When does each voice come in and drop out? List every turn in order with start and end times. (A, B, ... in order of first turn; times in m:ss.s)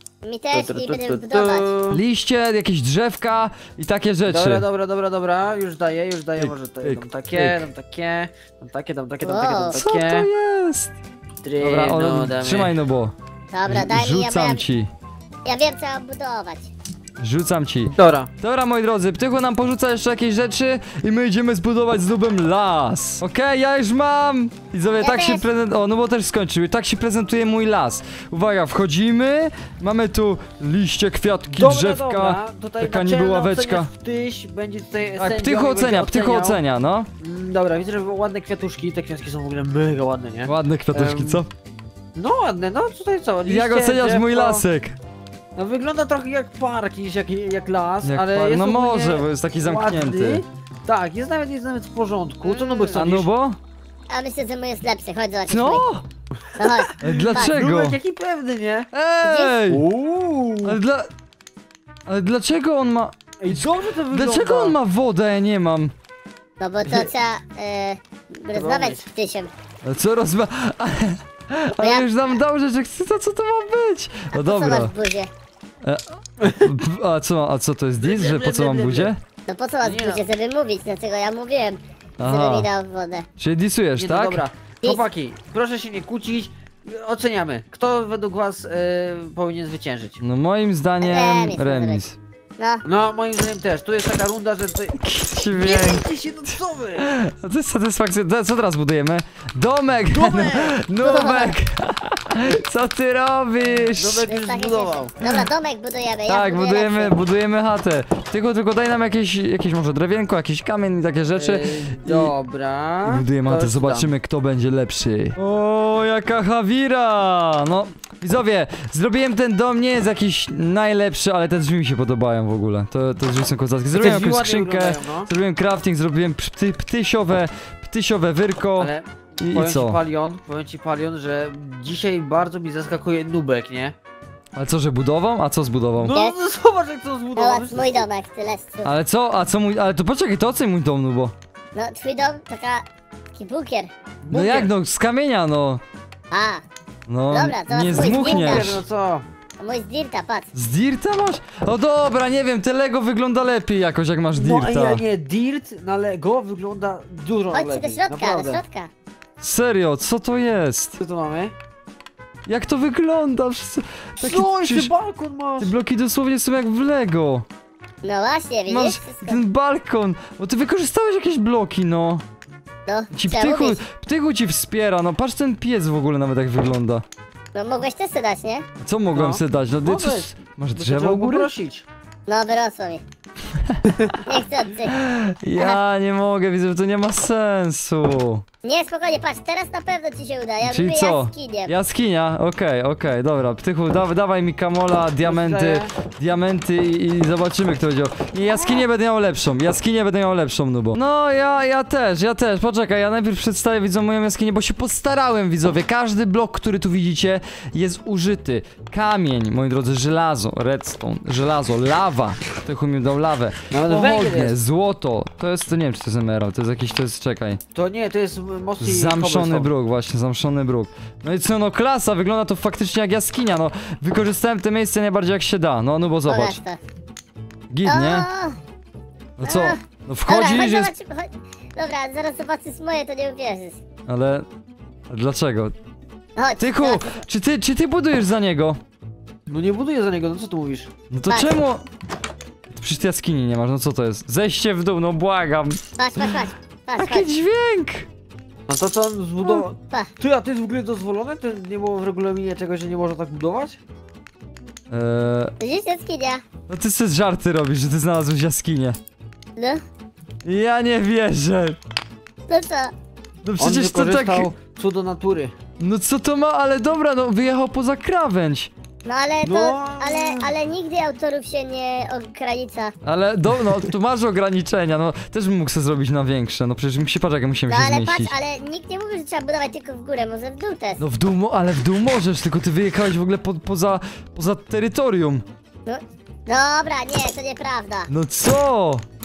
0:00.2-0:01.7 A
0:00.5-0:02.0 B
0:01.9-0:04.6 C
0:04.3-0:10.3 B
0:06.4-0:07.7 C
0:09.2-0:09.8 A
0:09.7-0:11.0 C
0:11.4-0:12.8 B
0:11.6-0:13.1 C
0:13.5-0:14.6 A
0:13.7-0:14.9 C
0:15.4-0:16.7 A
0:17.2-0:33.9 C
0:17.9-0:18.3 B
0:25.0-0:25.4 A
0:31.5-0:36.6 B
0:35.2-0:37.1 C
0:37.2-0:41.4 B
0:40.5-0:41.5 C
0:42.2-0:44.6 B
0:43.5-0:45.0 C
0:45.6-0:53.3 B
0:48.0-0:50.4 C
0:52.9-0:53.6 C
0:54.1-0:55.9 A
0:55.5-0:56.0 C
0:56.6-0:57.5 A
0:56.6-0:58.9 B
0:57.0-0:58.0 C
0:58.9-0:59.8 C
0:59.2-0:59.6 A
0:59.7-1:00.8 B
1:00.6-1:01.1 C
1:02.1-1:05.9 C
1:03.4-1:04.8 B
1:06.6-1:09.5 A
1:08.5-1:09.0 B
1:09.8-1:14.9 C
1:11.8-1:12.0 A
1:14.3-1:15.3 A
1:15.8-1:19.2 C
1:16.4-1:16.7 B
1:18.0-1:19.1 B
1:19.5-1:23.3 A
1:19.8-1:20.2 B
1:22.2-1:22.7 C
1:23.4-1:24.4 C
1:24.0-1:30.2 B
1:30.2-1:32.2 C
1:31.0-1:32.0 A
1:32.6-1:32.8 A
1:32.8-1:35.0 B
1:35.0-1:36.0 C
1:35.5-1:37.1 B
1:37.0-1:44.3 C
1:40.1-1:40.8 B
1:41.0-1:41.5 A
1:43.9-1:45.1 B
1:44.3-1:47.2 A
1:46.3-1:52.3 C
1:51.3-1:54.1 B
1:53.0-2:10.0 C
2:03.9-2:05.3 B
2:08.8-2:14.0 B
2:14.5-2:16.2 C
2:16.0-2:18.0 B
2:17.4-2:18.9 A
2:18.8-2:21.3 C
2:21.8-2:23.9 A
2:24.2-2:24.7 B
2:24.3-2:25.8 C
2:26.3-2:26.6 A
2:27.1-2:28.8 C
2:27.3-2:28.8 A
2:28.0-2:29.2 B
2:29.6-2:30.5 A
2:30.5-2:35.0 C
2:34.4-2:38.6 B
2:37.5-2:38.9 A
2:39.4-2:41.0 C
2:41.0-2:41.5 B
2:42.5-2:44.9 C
2:44.2-2:45.7 B
2:45.6-2:47.5 C
2:48.0-2:49.4 A
2:48.7-2:52.2 C
2:52.9-2:53.8 A
2:53.1-2:57.0 C
2:57.5-2:58.6 A
2:58.8-3:01.5 C
2:59.1-3:01.9 B
3:02.3-3:03.0 A
3:04.2-3:05.0 A
3:04.9-3:08.4 C
3:08.6-3:11.7 A
3:10.6-3:37.6 C
3:15.2-3:15.9 B
3:18.6-3:18.8 A
3:33.7-3:34.6 B
3:37.7-3:39.7 B
3:38.8-3:46.6 C
3:46.3-3:46.8 A
3:47.7-3:48.3 C
3:47.8-3:48.6 A
3:49.4-3:50.9 C
3:49.4-3:53.8 A
3:54.1-3:54.5 C
3:55.1-3:55.8 C
3:56.4-3:57.2 A
3:56.6-3:58.8 C
3:59.5-4:00.9 B
4:01.1-4:01.8 C
4:02.7-4:05.8 C
4:06.0-4:07.3 A
4:07.0-4:08.1 C
4:08.7-4:13.8 B
4:14.9-4:15.5 C
4:15.6-4:16.4 A
4:16.7-4:19.0 C
4:19.6-4:19.8 A
4:20.4-4:21.8 C
4:22.5-4:22.9 A
4:23.4-4:24.5 C
4:23.6-4:25.5 B
4:25.8-4:28.7 C
4:29.0-4:32.9 A
4:29.4-4:30.5 B
4:33.0-4:38.4 C
4:37.7-4:41.0 A
4:41.0-4:45.4 C
4:45.9-4:48.1 A
4:48.1-4:49.0 C